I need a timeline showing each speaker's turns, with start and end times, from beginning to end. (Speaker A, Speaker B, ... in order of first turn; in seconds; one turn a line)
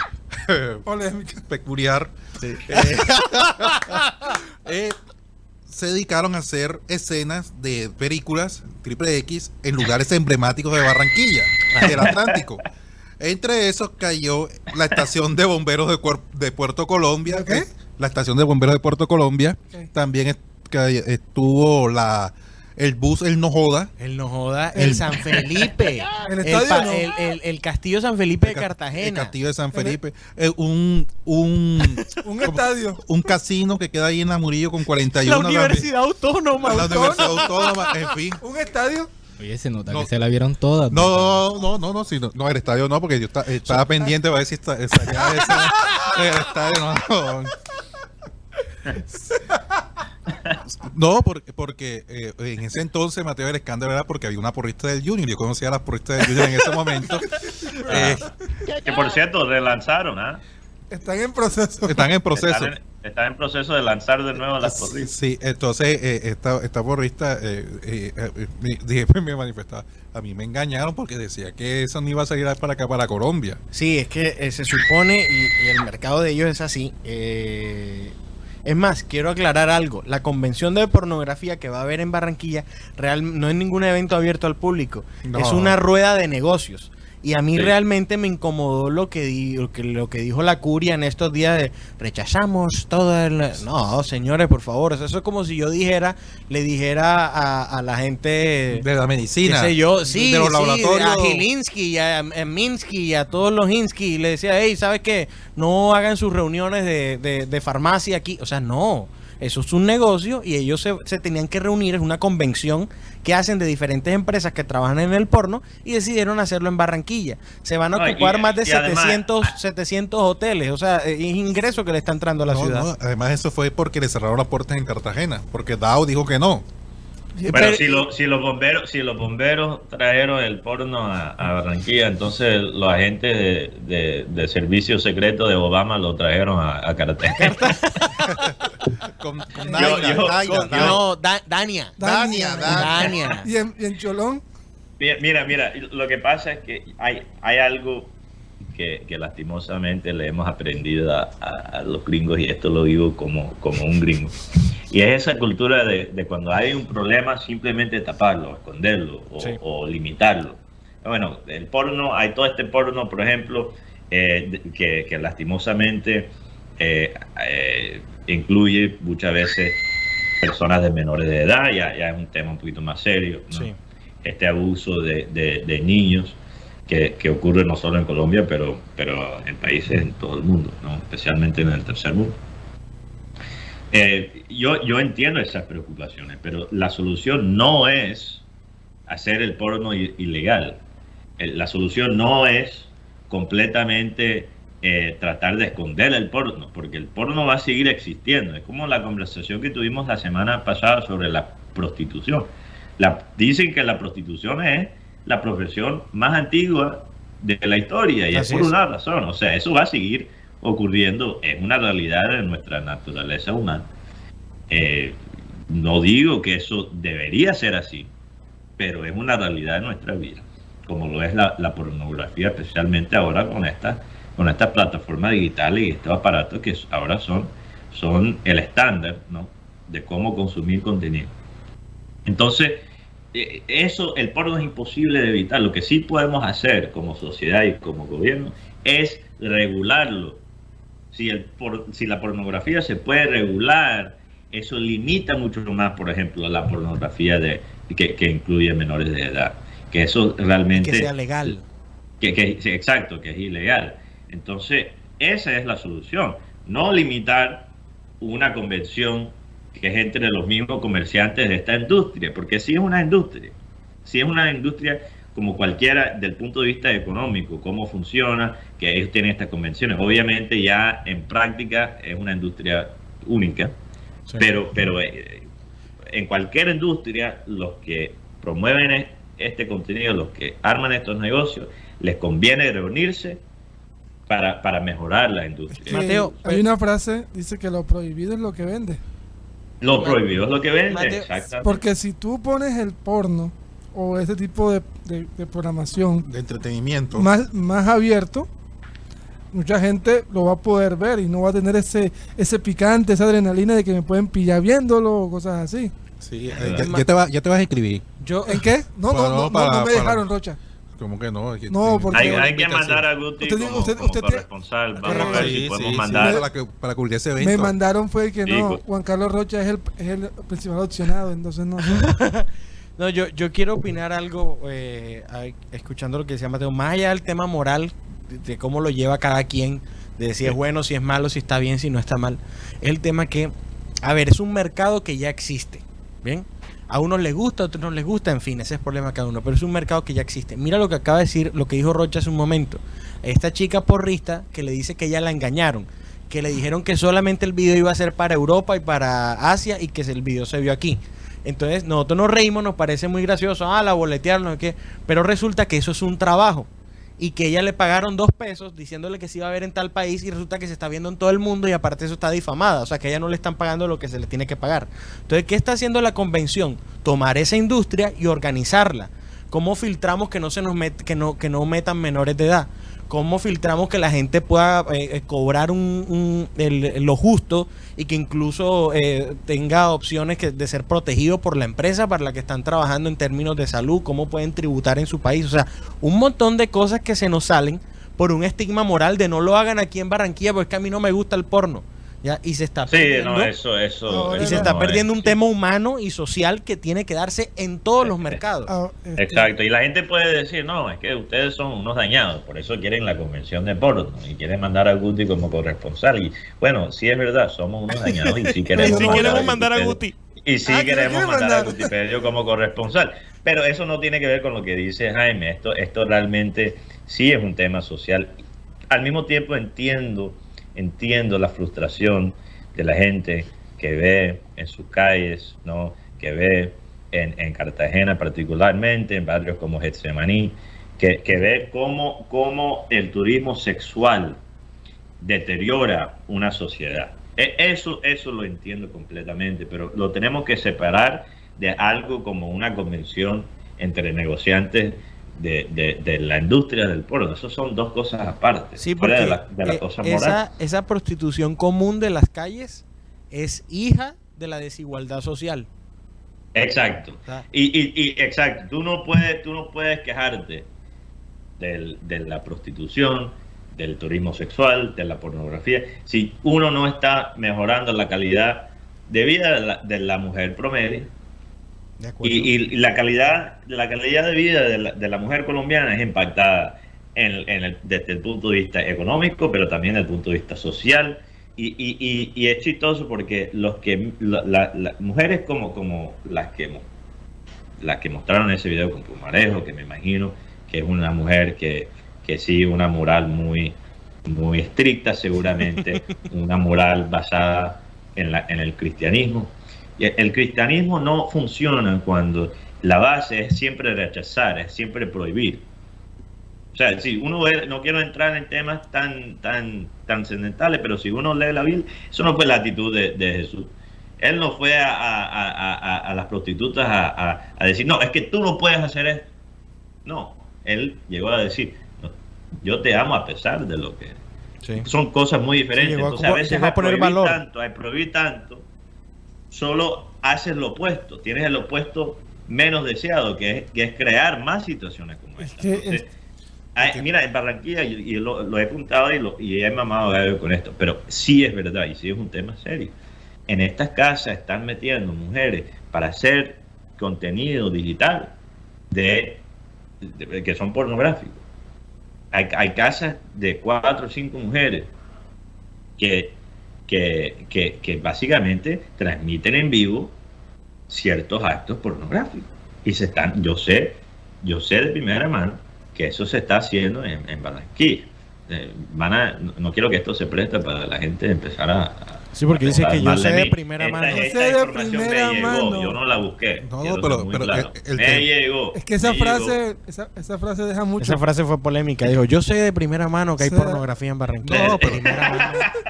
Speaker A: 0.3-0.9
Speaker B: 0.9-1.4
Speaker A: 1.5-5.0
Speaker C: 2.4-3.2
Speaker A: 5.7-12.6
Speaker C: 11.7-12.1
Speaker D: 11.8-12.4
Speaker A: 13.2-23.9
Speaker B: 17.3-17.7
Speaker C: 24.0-29.3
Speaker A: 24.8-25.4
Speaker B: 26.3-27.1
Speaker A: 28.4-35.9
Speaker B: 32.2-33.0
Speaker C: 35.2-37.8
Speaker A: 36.6-38.4
Speaker B: 36.7-37.9
Speaker B: 38.4-39.1
Speaker E: 39.4-41.4
Speaker A: 39.9-40.1
Speaker A: 40.9-47.6
Speaker A: 50.7-58.3
Speaker B: 57.7-58.1
Speaker D: 57.9-58.2
Speaker D: 58.8-60.4
Speaker B: 60.9-62.1
Speaker A: 61.8-62.7
Speaker D: 62.3-65.1
Speaker A: 64.7-73.6
Speaker C: 73.7-78.2
Speaker C: 78.7-98.8
Speaker A: 85.2-85.8
Speaker A: 98.7-101.5
Speaker C: 99.4-122.9
Speaker D: 118.0-119.5
Speaker A: 122.5-126.7
Speaker B: 127.4-128.0
Speaker D: 127.5-137.8
Speaker C: 127.5-127.9
Speaker C: 137.3-138.3
Speaker A: 138.2-141.0
Speaker D: 139.7-141.0
Speaker C: 140.7-142.0
Speaker A: 142.0-143.2
Speaker B: 142.0-144.4
Speaker C: 142.6-143.5
Speaker D: 145.0-148.1
Speaker D: 148.7-154.4
Speaker D: 154.9-169.8
Speaker D: 170.4-173.7
Speaker C: 173.5-173.8
Speaker D: 174.2-182.4
Speaker D: 183.9-188.4
Speaker D: 189.1-190.8
Speaker D: 191.4-213.9
Speaker C: 208.3-208.7
Speaker D: 214.7-218.1
Speaker D: 218.8-231.3
Speaker D: 232.2-232.8
Speaker D: 233.3-240.4
Speaker D: 241.1-251.5
Speaker C: 250.8-251.7
Speaker D: 252.2-257.7
Speaker D: 258.2-273.7
Speaker D: 274.4-275.5
Speaker D: 276.1-283.4
Speaker D: 284.3-286.4
Speaker C: 285.9-286.6
Speaker B: 285.9-289.0
Speaker D: 289.8-291.8
Speaker C: 289.9-290.2
Speaker C: 290.9-291.3
Speaker B: 291.6-296.3
Speaker A: 296.2-297.3
Speaker B: 297.1-298.5
Speaker B: 299.5-305.9
Speaker A: 306.2-308.1
Speaker D: 306.5-306.9
Speaker C: 306.6-307.1
Speaker C: 308.2-308.7
Speaker B: 308.4-310.6
Speaker A: 309.1-310.3
Speaker A: 310.9-313.0
Speaker B: 311.7-312.6
Speaker D: 312.1-316.4
Speaker B: 313.4-314.4
Speaker B: 315.0-315.6
Speaker A: 315.1-317.8
Speaker B: 316.2-316.5
Speaker B: 317.4-322.1
Speaker D: 318.5-318.8
Speaker C: 321.9-393.5
Speaker D: 392.9-395.4
Speaker B: 394.1-394.8
Speaker C: 394.4-398.7
Speaker D: 398.0-398.4
Speaker B: 398.7-399.5
Speaker D: 399.2-418.3
Speaker C: 407.9-410.2
Speaker B: 408.7-409.6
Speaker B: 410.7-411.9
Speaker D: 418.9-434.4
Speaker D: 435.2-450.4
Speaker C: 448.8-455.7
Speaker D: 456.6-460.7
Speaker D: 461.6-471.1
Speaker C: 472.0-472.5
Speaker D: 472.2-486.9
Speaker D: 487.8-505.6
Speaker C: 495.6-496.0
Speaker D: 506.7-519.3
Speaker D: 520.0-524.2
Speaker D: 524.8-528.6
Speaker C: 525.8-527.4
Speaker D: 529.5-536.1
Speaker B: 535.4-536.0
Speaker D: 536.8-542.9
Speaker D: 543.5-548.3
Speaker D: 548.9-549.4
Speaker D: 550.0-551.4
Speaker D: 552.3-554.9
Speaker D: 556.0-556.4
Speaker D: 556.9-560.1
Speaker D: 560.9-579.6
Speaker C: 572.4-574.3
Speaker B: 574.0-576.0
Speaker A: 576.6-578.3
Speaker B: 578.8-581.2
Speaker C: 581.0-585.7
Speaker B: 583.4-583.8
Speaker A: 584.4-585.4
Speaker D: 584.5-585.7